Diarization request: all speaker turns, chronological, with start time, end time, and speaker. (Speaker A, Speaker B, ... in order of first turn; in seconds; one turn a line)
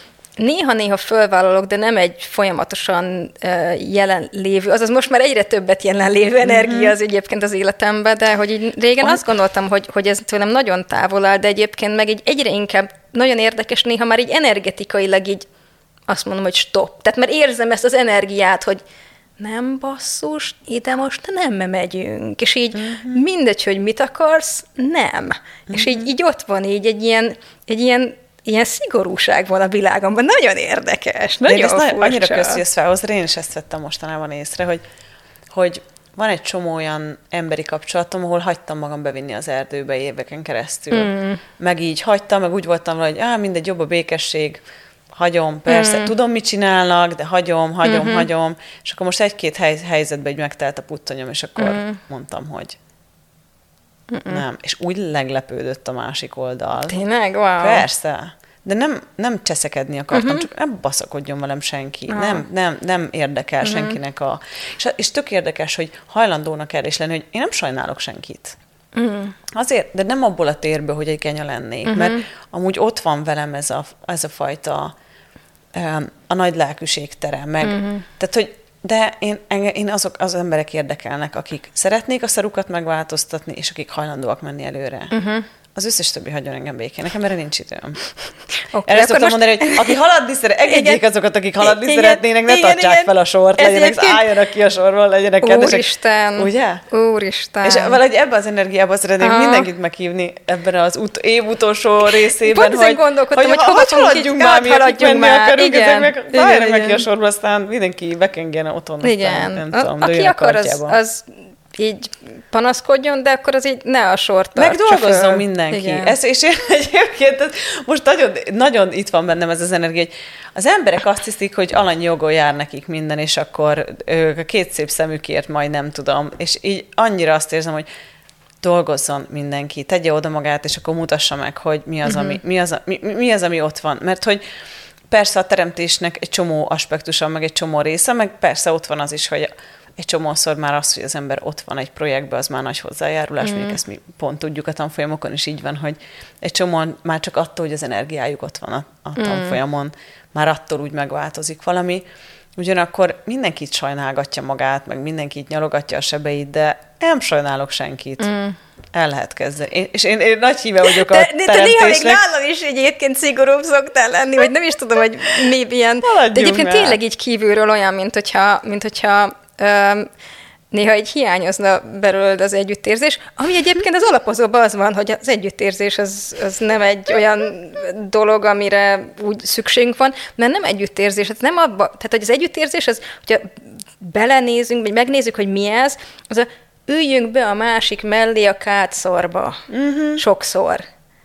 Speaker A: 0.4-15.4
Speaker B: 6.4-6.9
Speaker A: 16.1-18.8
Speaker A: 19.4-32.6
Speaker B: 22.7-23.2
Speaker B: 25.7-26.1
Speaker B: 31.4-34.8
Speaker B: 35.5-52.8
Speaker A: 40.9-41.4
Speaker A: 45.7-46.1
Speaker A: 47.8-48.3
Speaker A: 51.6-52.0
Speaker A: 54.1-54.4
Speaker B: 54.3-57.0
Speaker A: 56.9-57.9
Speaker B: 57.6-68.6
Speaker A: 60.1-60.4
Speaker A: 62.1-62.4
Speaker A: 63.6-64.0
Speaker A: 68.9-69.3
Speaker B: 69.5-74.9
Speaker A: 71.8-72.2
Speaker B: 75.7-85.1
Speaker A: 77.6-78.0
Speaker A: 85.1-85.5
Speaker B: 85.7-88.0
Speaker A: 88.7-90.0
Speaker B: 88.8-96.8
Speaker A: 90.7-91.0
Speaker A: 91.6-94.3
Speaker A: 95.4-98.0
Speaker B: 97.6-111.0
Speaker A: 99.2-99.7
Speaker A: 102.1-107.0
Speaker A: 109.0-116.1
Speaker B: 114.5-127.9
Speaker B: 128.6-134.4
Speaker A: 132.0-132.4
Speaker B: 135.1-152.0
Speaker A: 143.4-143.8
Speaker A: 149.2-149.6
Speaker B: 152.6-158.3
Speaker A: 158.2-158.6
Speaker B: 158.9-162.2
Speaker A: 160.8-170.1
Speaker B: 166.0-167.0
Speaker A: 170.7-189.6
Speaker B: 189.7-190.2
Speaker A: 190.2-190.8